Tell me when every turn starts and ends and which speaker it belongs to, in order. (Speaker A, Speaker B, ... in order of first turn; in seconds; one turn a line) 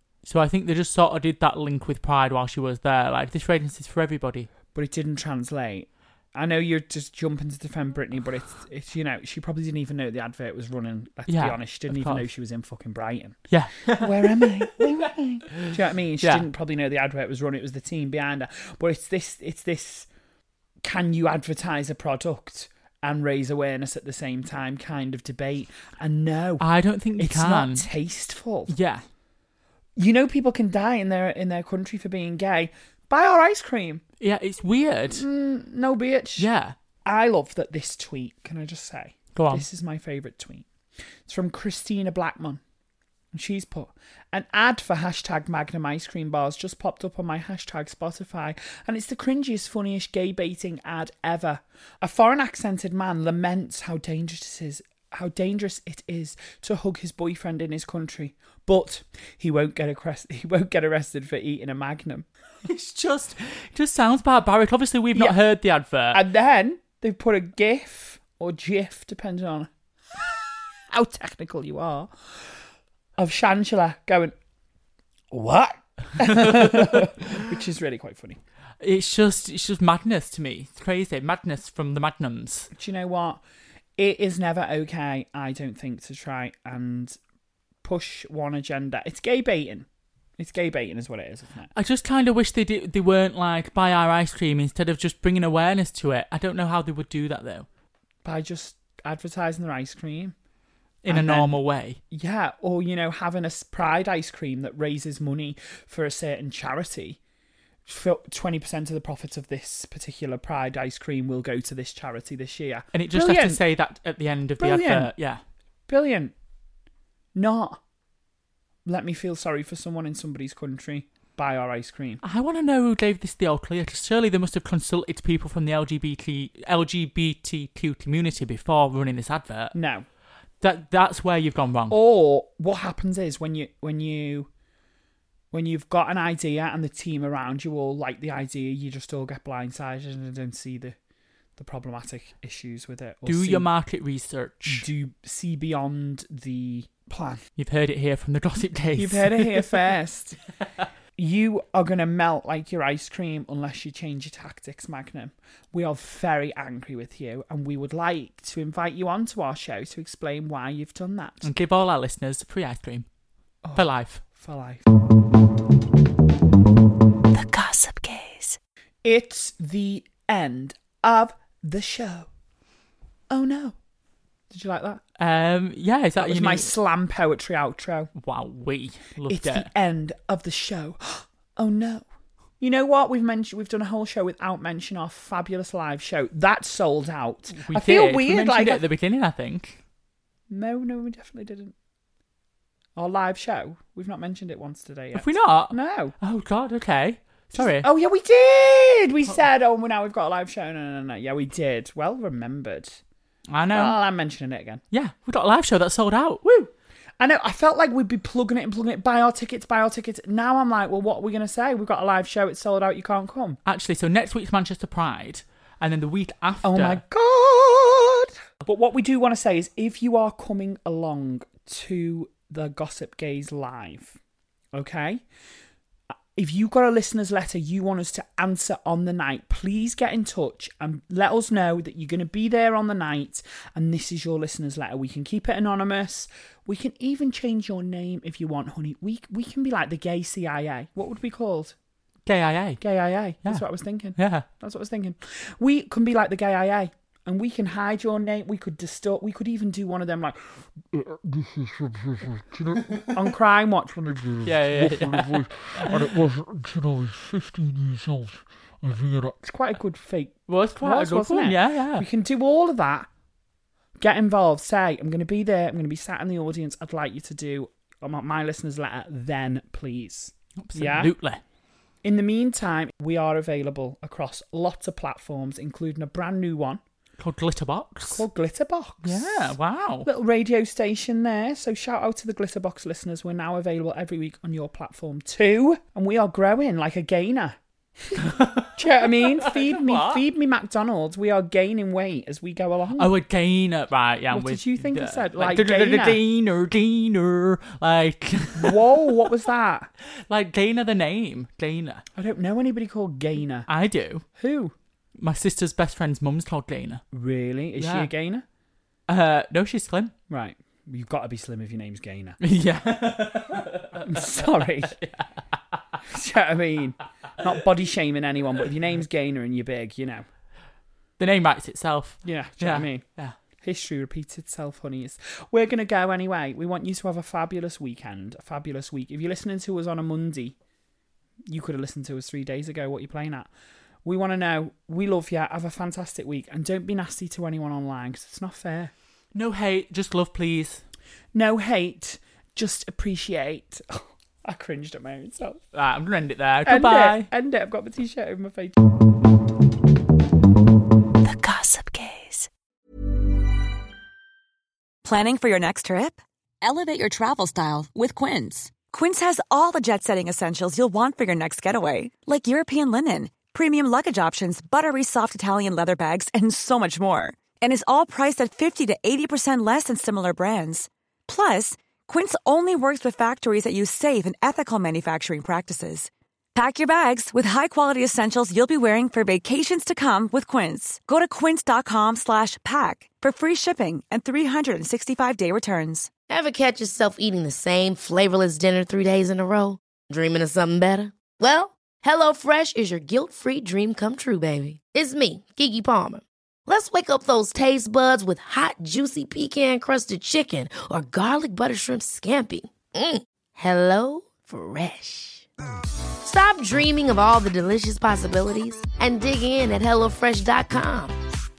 Speaker A: 0.2-4.5
Speaker B: 4.8-20.1
Speaker A: 11.3-12.2
Speaker A: 13.5-14.5
Speaker A: 15.5-16.4
Speaker B: 20.8-26.7
Speaker A: 26.6-27.9
Speaker B: 27.2-28.7
Speaker A: 28.7-29.0
Speaker B: 30.0-34.0
Speaker A: 34.2-35.2
Speaker B: 35.1-36.5
Speaker A: 36.4-36.8
Speaker B: 37.0-40.7
Speaker A: 39.4-39.6
Speaker B: 41.3-42.6
Speaker B: 43.3-62.3
Speaker A: 62.6-66.2
Speaker B: 66.1-70.4
Speaker B: 70.9-72.1
Speaker B: 73.2-74.3
Speaker B: 75.3-78.4
Speaker A: 76.2-77.3
Speaker A: 78.8-82.7
Speaker B: 82.7-83.4
Speaker B: 84.0-87.2
Speaker B: 87.8-89.9
Speaker B: 90.4-91.7
Speaker A: 91.7-97.7
Speaker B: 98.2-100.3
Speaker A: 101.0-102.0
Speaker B: 101.1-101.6
Speaker B: 102.1-107.2
Speaker B: 107.9-113.6
Speaker A: 112.9-115.4
Speaker B: 114.6-115.1
Speaker B: 115.9-116.3
Speaker B: 117.3-117.8
Speaker B: 118.9-122.2
Speaker A: 122.2-129.7
Speaker B: 129.7-130.1
Speaker A: 130.6-132.0
Speaker B: 131.9-134.5
Speaker B: 135.5-140.9
Speaker B: 141.6-143.7
Speaker A: 143.3-144.8
Speaker B: 144.7-147.4
Speaker A: 147.6-149.6
Speaker B: 149.0-150.4
Speaker B: 151.2-161.5
Speaker A: 161.4-163.1
Speaker B: 163.6-164.8
Speaker A: 163.8-164.2
Speaker C: 167.3-168.6
Speaker B: 169.0-172.3
Speaker B: 173.3-173.8
Speaker B: 174.5-175.0
Speaker A: 175.2-176.7
Speaker B: 176.2-178.1
Speaker A: 178.2-179.7
Speaker B: 179.3-182.1
Speaker B: 182.6-188.8
Speaker A: 187.5-189.8
Speaker B: 190.5-191.7
Speaker B: 193.0-196.1
Speaker A: 195.2-197.9
Speaker B: 197.6-203.0
Speaker A: 203.5-204.0
Speaker B: 203.7-204.8
Speaker A: 204.9-206.7
Speaker B: 207.2-213.6
Speaker A: 213.7-217.0
Speaker B: 216.6-224.2
Speaker B: 224.7-225.2
Speaker B: 226.4-241.8
Speaker A: 242.3-242.8
Speaker B: 242.8-250.6
Speaker A: 244.2-244.5
Speaker D: 250.9-253.3
Speaker B: 253.1-254.2
Speaker D: 254.1-259.4
Speaker A: 254.5-256.0
Speaker B: 259.4-263.1
Speaker A: 260.5-262.1
Speaker B: 264.0-271.1
Speaker A: 270.6-271.4
Speaker B: 272.0-276.8
Speaker A: 277.2-278.2
Speaker B: 278.1-287.6
Speaker A: 279.0-280.1
Speaker B: 288.1-293.1
Speaker A: 288.2-290.2
Speaker A: 293.0-298.8
Speaker B: 294.3-296.2
Speaker B: 298.6-299.9
Speaker A: 300.3-302.0
Speaker B: 302.2-303.7
Speaker A: 303.7-304.2
Speaker B: 304.4-304.7
Speaker A: 305.2-307.0
Speaker B: 307.1-308.4
Speaker A: 307.8-308.1
Speaker A: 309.1-310.1
Speaker B: 310.3-312.4
Speaker A: 312.4-315.3
Speaker B: 314.0-315.0
Speaker B: 316.1-320.2
Speaker A: 321.2-323.3
Speaker B: 322.2-323.0
Speaker B: 323.6-330.6
Speaker B: 331.5-333.5
Speaker B: 334.1-338.9
Speaker A: 339.3-340.8
Speaker B: 341.3-345.6
Speaker A: 345.7-347.3
Speaker B: 346.6-348.8
Speaker C: 351.2-352.5
Speaker E: 355.0-386.1
Speaker F: 386.3-405.5
Speaker F: 406.2-411.2